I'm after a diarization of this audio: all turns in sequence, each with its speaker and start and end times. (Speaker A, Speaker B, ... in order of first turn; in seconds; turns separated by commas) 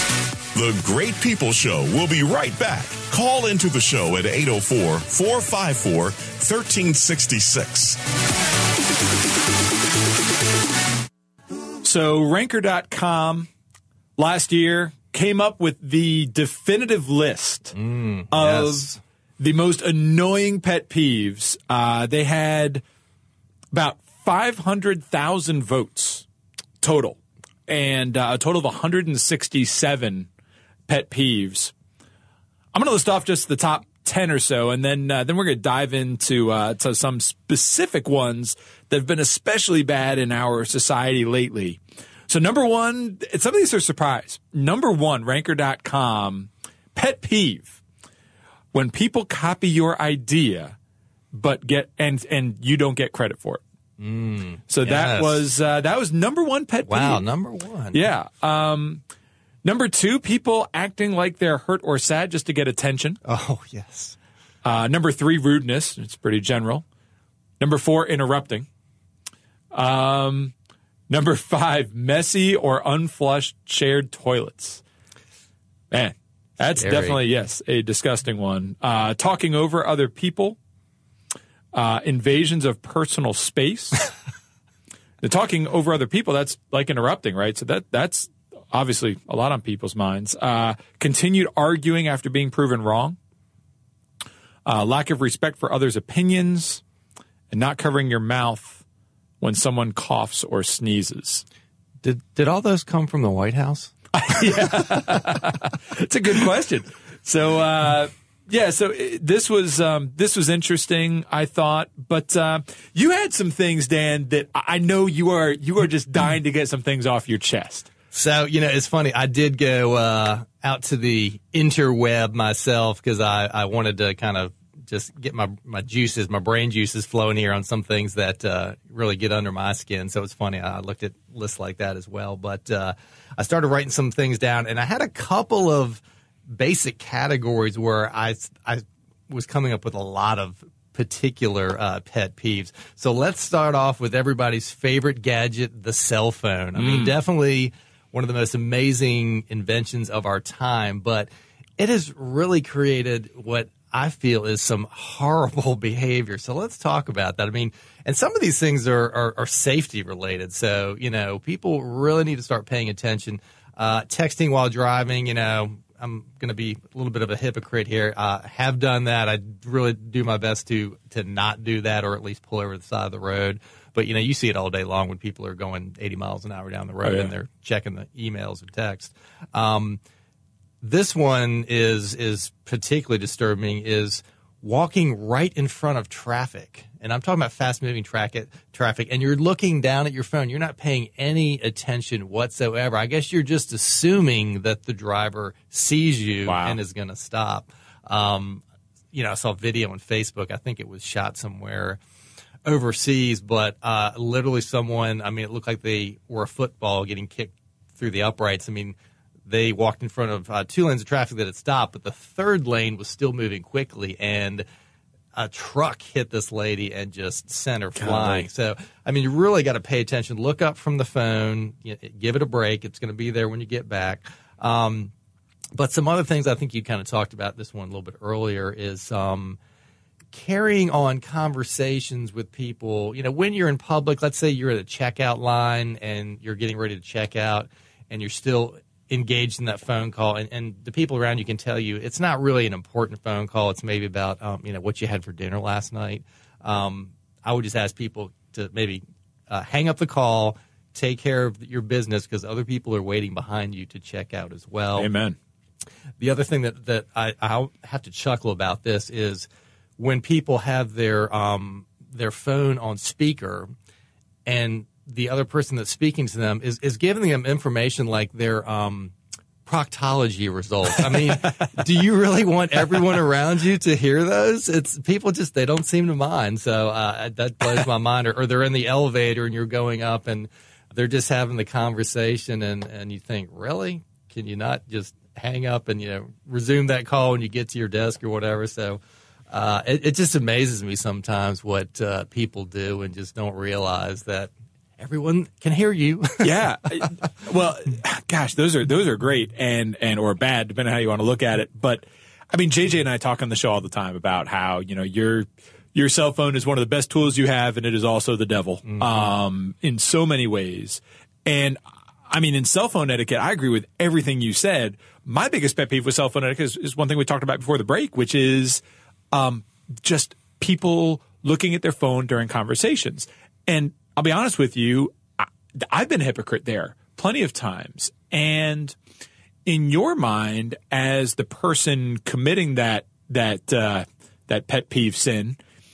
Speaker A: 0.5-8.0, Speaker B: 11.8-13.5, Speaker B: 14.2-17.8, Speaker C: 17.7-19.0, Speaker B: 18.3-22.8, Speaker B: 23.7-26.2, Speaker B: 26.8-30.3, Speaker B: 30.9-31.7, Speaker B: 32.7-47.8, Speaker B: 48.7-50.8, Speaker B: 51.3-53.6, Speaker C: 54.0-55.4, Speaker B: 54.7-57.2, Speaker C: 56.9-58.0, Speaker B: 57.9-59.0, Speaker B: 59.6-63.2, Speaker C: 63.2-64.2, Speaker B: 64.6-66.8, Speaker B: 67.6-68.7, Speaker B: 69.7-70.5, Speaker B: 71.1-74.8, Speaker B: 75.9-80.6, Speaker C: 76.7-77.2, Speaker B: 81.7-84.0, Speaker B: 85.2-93.2, Speaker B: 94.6-96.8, Speaker B: 97.5-98.8, Speaker B: 99.4-101.4, Speaker C: 102.0-104.5, Speaker B: 104.1-117.9, Speaker C: 118.1-180.0, Speaker B: 146.8-147.1, Speaker B: 177.0-177.3, Speaker C: 180.8-202.0, Speaker B: 196.4-196.8, Speaker C: 202.6-208.9, Speaker C: 209.5-214.6, Speaker C: 215.3-225.1, Speaker B: 218.0-218.5, Speaker C: 225.8-229.6, Speaker C: 230.3-255.1, Speaker B: 254.9-255.4, Speaker C: 256.2-259.5, Speaker C: 260.0-263.7, Speaker C: 264.4-296.5, Speaker B: 296.4-328.9, Speaker B: 329.6-335.6